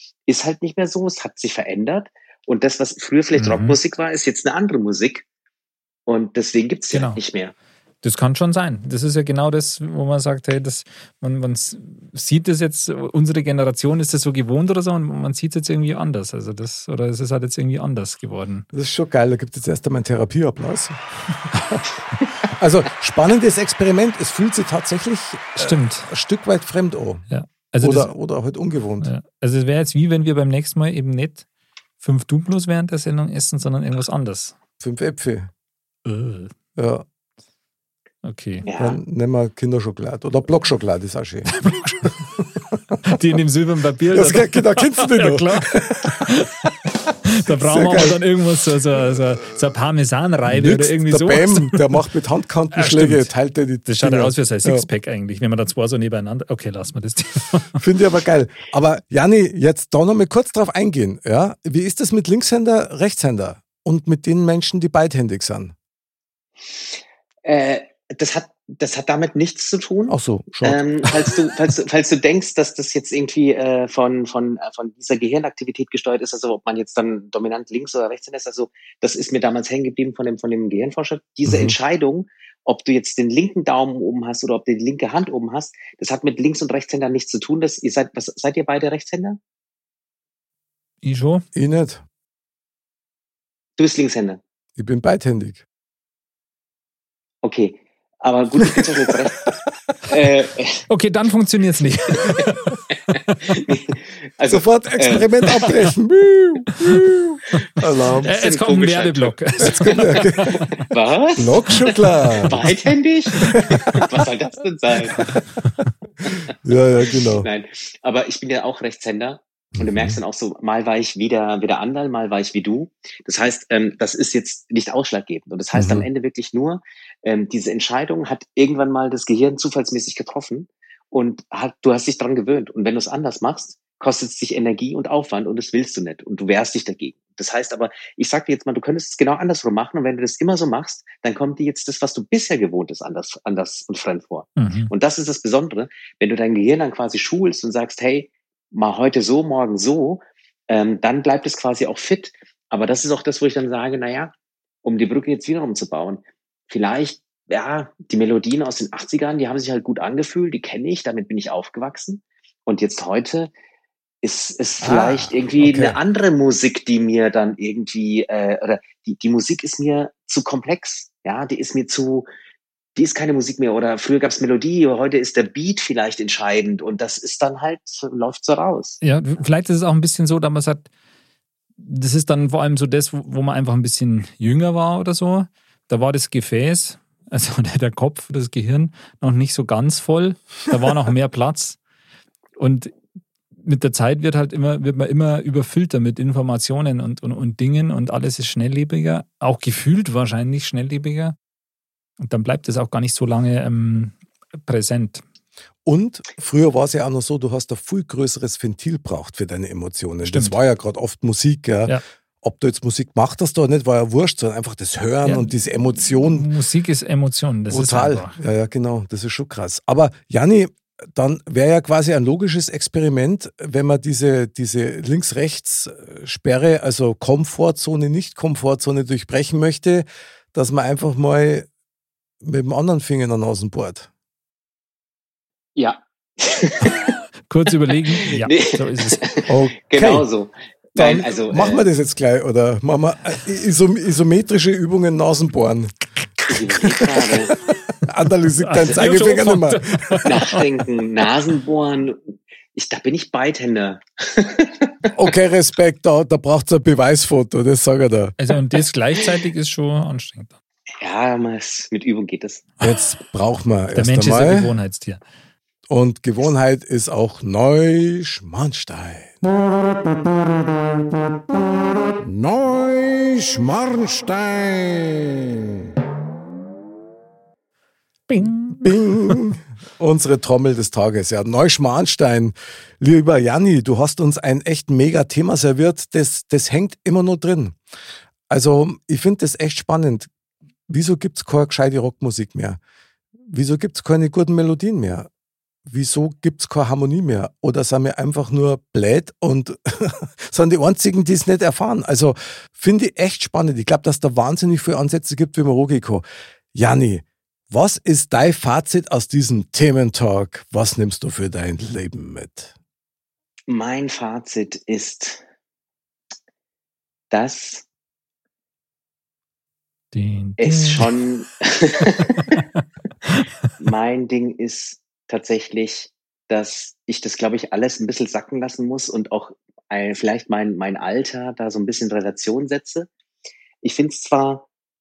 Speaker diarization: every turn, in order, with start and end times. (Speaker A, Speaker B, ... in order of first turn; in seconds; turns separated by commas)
Speaker A: 0.3-5.2, Speaker B: 3.3-3.8, Speaker A: 6.1-7.5, Speaker B: 6.9-7.2, Speaker B: 8.0-18.7, Speaker C: 18.7-21.8, Speaker C: 22.4-27.3, Speaker B: 25.6-26.1, Speaker B: 27.3-28.1, Speaker C: 27.8-29.1, Speaker B: 29.0-31.4, Speaker B: 32.0-34.5, Speaker C: 34.8-35.5, Speaker B: 36.0-36.5, Speaker C: 36.8-37.0, Speaker B: 38.2-38.7, Speaker A: 38.6-39.0, Speaker C: 38.7-41.5, Speaker B: 41.5-42.2, Speaker B: 43.0-46.5, Speaker C: 44.1-46.2, Speaker B: 47.2-52.0, Speaker C: 47.5-48.2, Speaker C: 49.0-49.6, Speaker C: 50.5-54.9, Speaker B: 52.7-53.3, Speaker B: 53.8-57.8, Speaker C: 57.8-65.7, Speaker A: 66.7-89.4, Speaker C: 70.1-70.8, Speaker C: 81.5-81.7, Speaker B: 91.0-91.4, Speaker C: 91.5-92.0, Speaker A: 93.8-94.4, Speaker C: 94.8-95.6, Speaker A: 97.4-99.5, Speaker A: 100.1-100.8, Speaker B: 100.9-103.6, Speaker A: 103.5-105.7, Speaker C: 104.5-108.3, Speaker A: 108.2-110.0, Speaker B: 108.2-110.7, Speaker C: 109.6-110.7, Speaker A: 110.7-115.2, Speaker C: 111.4-112.5, Speaker B: 113.4-113.8, Speaker C: 116.6-117.5, Speaker A: 117.4-154.3, Speaker C: 119.8-120.2, Speaker C: 125.7-126.1, Speaker B: 144.6-144.9, Speaker A: 154.8-163.5, Speaker A: 164.2-172.3, Speaker C: 164.8-166.0, Speaker A: 172.9-179.0, Speaker B: 179.0-180.9, Speaker B: 181.8-191.8, Speaker B: 192.6-192.9, Speaker B: 193.6-201.3, Speaker B: 202.2-205.2, Speaker C: 205.8-216.5, Speaker B: 210.2-210.6, Speaker B: 216.2-218.4, Speaker C: 217.7-231.7, Speaker C: 232.4-234.1, Speaker A: 235.8-237.1, Speaker B: 237.5-239.2, Speaker A: 238.1-241.8, Speaker C: 239.5-240.2, Speaker C: 240.9-245.9, Speaker B: 246.1-247.8, Speaker A: 246.5-247.6, Speaker C: 248.1-250.3, Speaker B: 248.6-250.6, Speaker A: 250.2-252.2, Speaker A: 252.7-255.1, Speaker C: 255.1-258.4, Speaker B: 258.4-260.5, Speaker A: 261.0-262.7, Speaker C: 262.8-264.7, Speaker B: 263.9-265.2, Speaker C: 265.9-271.2, Speaker C: 272.2-275.7, Speaker B: 278.3-279.5, Speaker C: 278.7-287.8, Speaker C: 288.5-290.3, Speaker C: 290.9-292.8, Speaker C: 293.5-295.3, Speaker C: 295.9-312.7, Speaker A: 313.7-315.4, Speaker A: 317.3-317.8, Speaker B: 320.1-321.1, Speaker A: 320.6-322.6, Speaker B: 322.5-323.5, Speaker A: 323.8-333.1, Speaker A: 333.8-334.7